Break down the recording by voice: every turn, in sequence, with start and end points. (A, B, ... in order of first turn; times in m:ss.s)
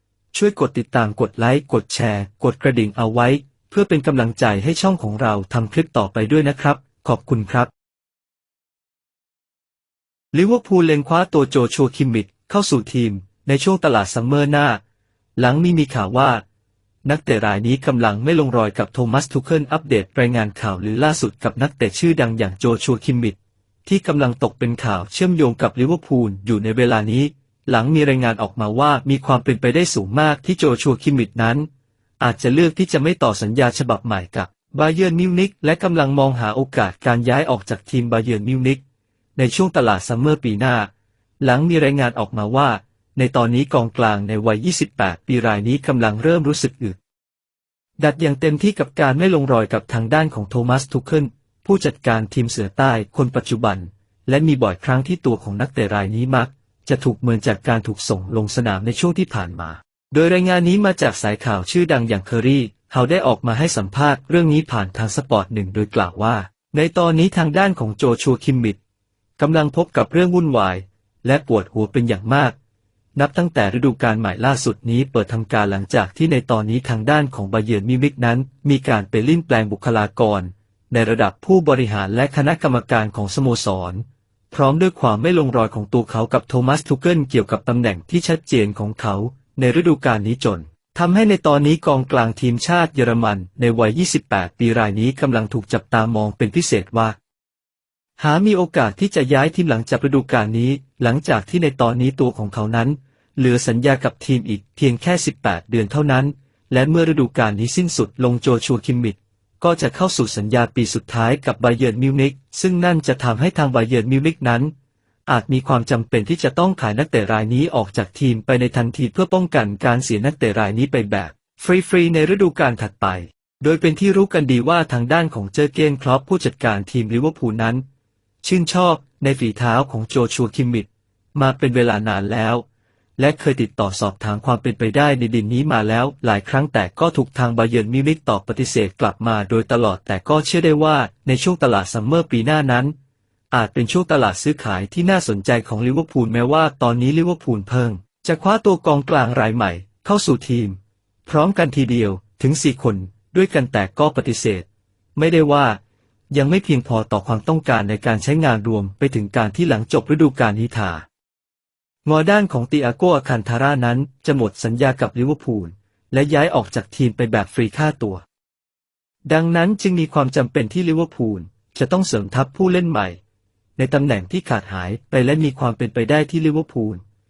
0:00.3-0:07.7 A
0:10.3-0:14.8 A
0:15.4-0:16.4 A
0:17.0-0:31.7 A
0:32.2-0:38.8 A
0:39.4-0:40.9 A
0:41.4-0:47.0 A
0:48.0-1:08.8 A
1:09.4-1:12.6 A
1:13.2-1:37.2 A
1:38.2-1:54.7 A
1:55.3-2:07.8 A
2:08.4-2:12.7 A
2:13.2-2:22.9 A
2:23.5-2:35.8 A
2:36.3-2:41.0 A
2:42.0-2:48.2 A
2:49.3-2:53.2 A
2:53.8-2:57.0 A